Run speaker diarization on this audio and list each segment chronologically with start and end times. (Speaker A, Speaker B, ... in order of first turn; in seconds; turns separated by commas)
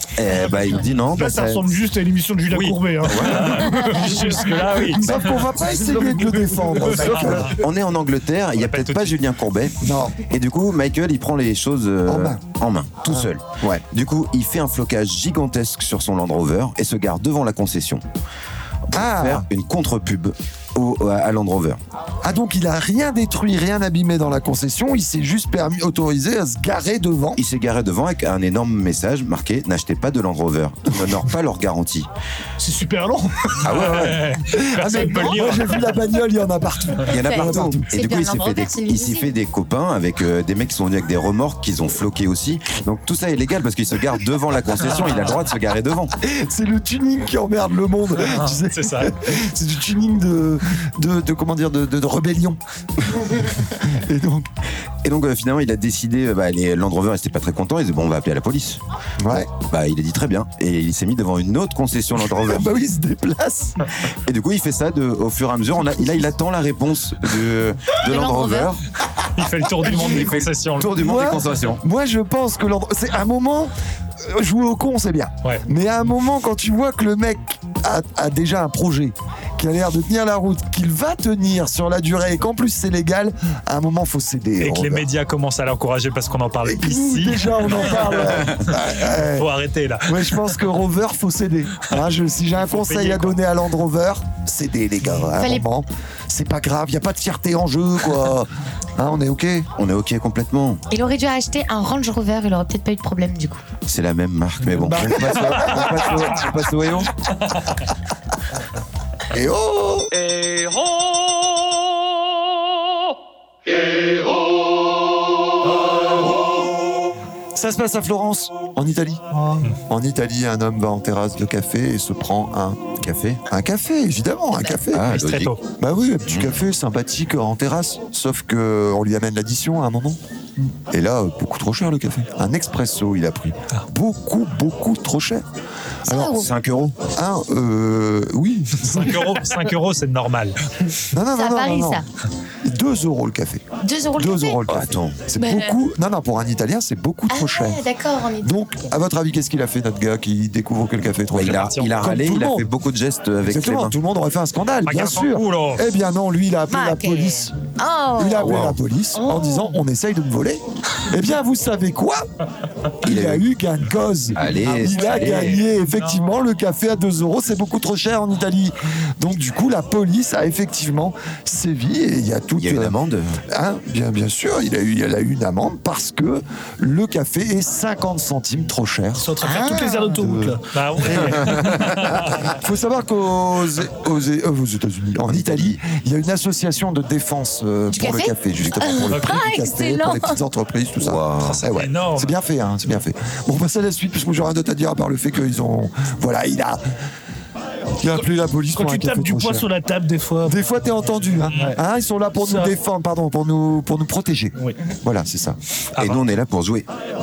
Speaker A: 0.2-1.7, Speaker B: 1.1-5.0, Speaker C: 2.5-5.5, Speaker A: 3.0-3.7, Speaker D: 4.9-7.6, Speaker A: 7.0-18.0, Speaker C: 8.6-9.2, Speaker D: 9.8-10.2, Speaker D: 12.1-12.4, Speaker D: 13.0-13.8, Speaker A: 18.9-21.8, Speaker D: 18.9-19.5, Speaker D: 22.2-27.4, Speaker A: 27.4-32.1, Speaker B: 32.6-33.6, Speaker A: 33.6-34.3, Speaker C: 33.6-35.9, Speaker D: 34.2-37.9, Speaker E: 35.0-35.4, Speaker A: 37.0-46.1, Speaker E: 37.2-39.3, Speaker D: 46.2-54.5, Speaker C: 48.2-49.1, Speaker A: 55.0-58.8, Speaker D: 59.2-59.5, Speaker A: 59.6-62.7, Speaker D: 62.4-63.9, Speaker A: 64.3-68.8, Speaker E: 68.0-68.7, Speaker C: 69.3-71.0, Speaker A: 69.8-71.8, Speaker D: 69.9-70.2, Speaker D: 70.9-85.1, Speaker C: 84.6-90.4, Speaker D: 86.6-89.5, Speaker D: 90.0-99.7, Speaker C: 92.6-93.4, Speaker E: 95.3-95.7, Speaker A: 99.8-100.8, Speaker E: 100.9-103.6, Speaker A: 103.9-107.3, Speaker D: 104.8-106.4, Speaker D: 109.3-110.1, Speaker D: 117.5-122.8, Speaker A: 123.0-123.4, Speaker D: 123.5-125.2, Speaker A: 124.9-125.5, Speaker C: 125.1-125.6, Speaker D: 125.8-130.2, Speaker A: 126.3-126.5, Speaker D: 130.9-135.5, Speaker D: 136.1-136.5, Speaker E: 136.1-136.5, Speaker A: 136.3-137.0, Speaker D: 137.1-139.3, Speaker C: 138.8-140.6, Speaker D: 141.1-142.0, Speaker E: 141.3-142.0, Speaker D: 142.6-143.6, Speaker E: 143.8-144.6, Speaker D: 144.2-147.8, Speaker A: 144.7-145.2, Speaker E: 145.4-145.8, Speaker E: 147.3-148.9, Speaker D: 148.4-152.7, Speaker A: 151.3-153.9, Speaker C: 151.4-152.1, Speaker D: 153.4-157.6, Speaker C: 154.8-155.9, Speaker E: 156.7-158.6, Speaker D: 158.2-162.3, Speaker A: 158.4-158.8, Speaker E: 159.1-159.8, Speaker D: 163.0-173.0, Speaker A: 163.0-163.4, Speaker A: 164.3-165.6, Speaker C: 164.7-166.1, Speaker A: 172.6-173.4, Speaker D: 173.5-179.3, Speaker B: 179.2-180.7, Speaker E: 179.4-180.2, Speaker D: 180.2-196.8, Speaker C: 180.7-182.5, Speaker A: 181.3-181.7, Speaker A: 185.3-185.8, Speaker E: 187.9-190.4, Speaker C: 189.1-189.4, Speaker A: 191.0-191.6, Speaker C: 191.4-192.3, Speaker D: 198.0-199.7, Speaker B: 198.8-200.6, Speaker D: 200.4-205.6, Speaker B: 202.4-202.7, Speaker C: 206.0-206.2, Speaker A: 206.0-206.9